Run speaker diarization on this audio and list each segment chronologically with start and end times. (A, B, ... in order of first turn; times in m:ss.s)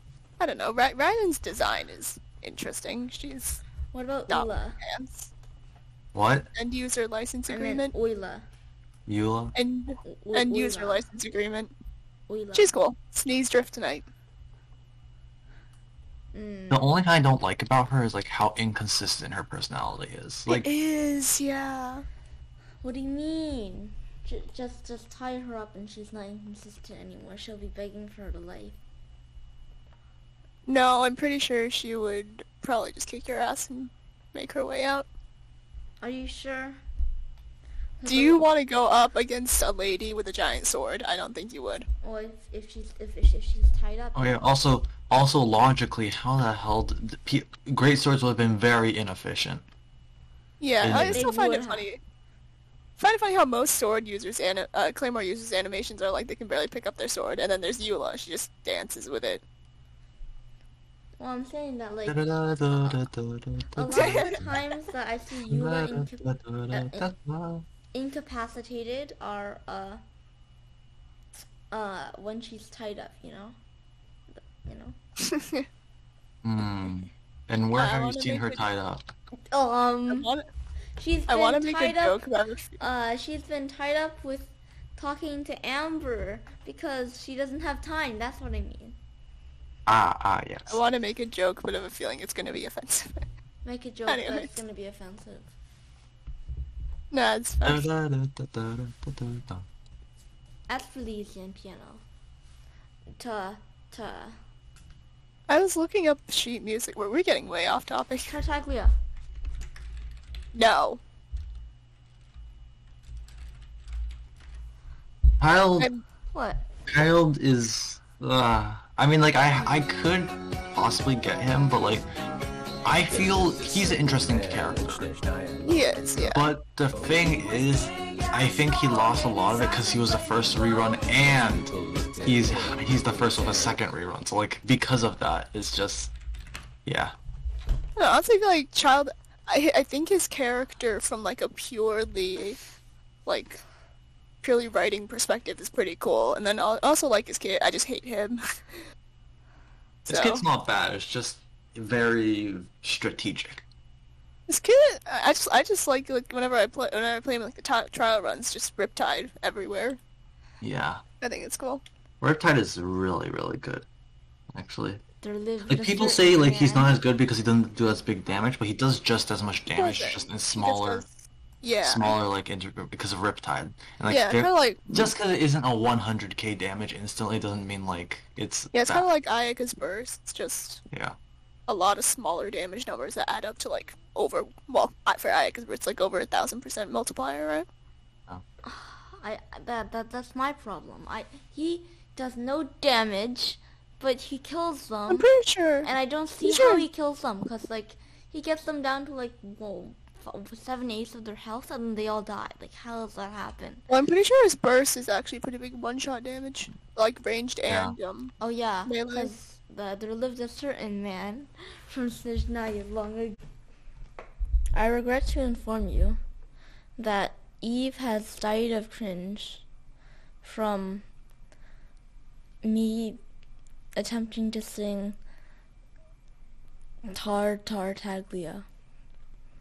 0:00.4-0:03.6 A
0:03.9-0:04.8 B
0:04.3-0:05.3 A
0:06.1-0:06.5 C
0:06.6-0:07.9 A
0:07.5-0:08.5 B
0:09.1-0:09.5 C
0:09.6-0:11.7 A
0:10.0-0:11.0 B
0:12.3-0:12.7 B
0:12.5-0:14.1 A
0:16.3-0:16.9 B
0:16.7-0:20.7 C
0:20.5-0:22.1 A
0:22.8-0:28.8 B
0:30.7-0:35.1 A
0:36.0-0:36.8 B
0:38.0-0:38.4 B
0:38.1-0:41.9 A
0:42.0-0:44.4 B
0:44.2-0:49.6 C
0:50.6-0:52.0 A
0:50.8-0:51.3 C
0:51.0-0:51.9 B
0:53.0-0:59.4 A
1:01.2-1:03.0 B
1:02.1-1:04.5 C
1:03.8-1:07.1 B
1:04.0-1:04.4 A
1:05.5-1:07.7 C
1:07.9-1:10.0 B
1:11.7-1:13.6 B
1:14.4-1:15.0 B
1:15.2-1:15.7 A
1:16.4-1:19.0 C
1:17.8-1:18.6 A
1:19.5-1:20.3 B
1:20.1-1:20.5 A
1:21.0-1:22.2 B
1:21.3-1:22.8 A
1:22.8-1:29.0 B
1:29.9-1:30.8 C
1:30.7-1:33.3 A
1:33.6-1:35.5 B
1:34.1-1:34.5 A
1:37.1-1:37.8 A
1:37.6-1:39.7 C
1:40.7-1:42.0 B
1:43.2-1:44.4 B
1:45.5-1:48.4 A
1:48.3-1:48.9 B
1:50.5-1:51.0 A
1:55.4-1:55.9 C
1:56.3-1:56.7 B
1:56.9-2:02.1 C
2:02.8-2:05.1 C
2:05.6-2:06.4 A
2:06.3-2:16.1 C
2:16.9-2:17.1 C
2:18.0-2:22.6 A
2:23.3-2:23.6 A
2:24.4-2:28.4 A
2:30.0-2:30.4 A
2:30.1-2:33.6 C
2:34.5-2:40.0 A
2:40.6-2:41.0 C
2:41.2-2:41.8 A
2:42.2-2:43.9 C
2:44.5-2:45.0 C
2:45.2-2:47.0 B
2:45.7-2:51.0 C
2:49.8-2:52.2 A
2:51.8-2:59.1 C
2:54.1-2:54.8 A
2:58.7-3:00.8 A
3:00.9-3:01.2 C
3:01.7-3:07.7 A
3:08.6-3:15.3 B
3:15.1-3:16.9 A
3:15.8-3:23.8 B
3:23.9-3:28.3 A
3:27.7-3:28.0 C
3:28.4-3:33.4 B
3:28.9-3:29.3 A
3:34.8-3:36.2 B
3:37.0-3:39.6 B
3:40.4-3:41.1 B
3:42.6-3:43.2 B
3:44.0-3:45.2 B
3:47.1-3:48.7 B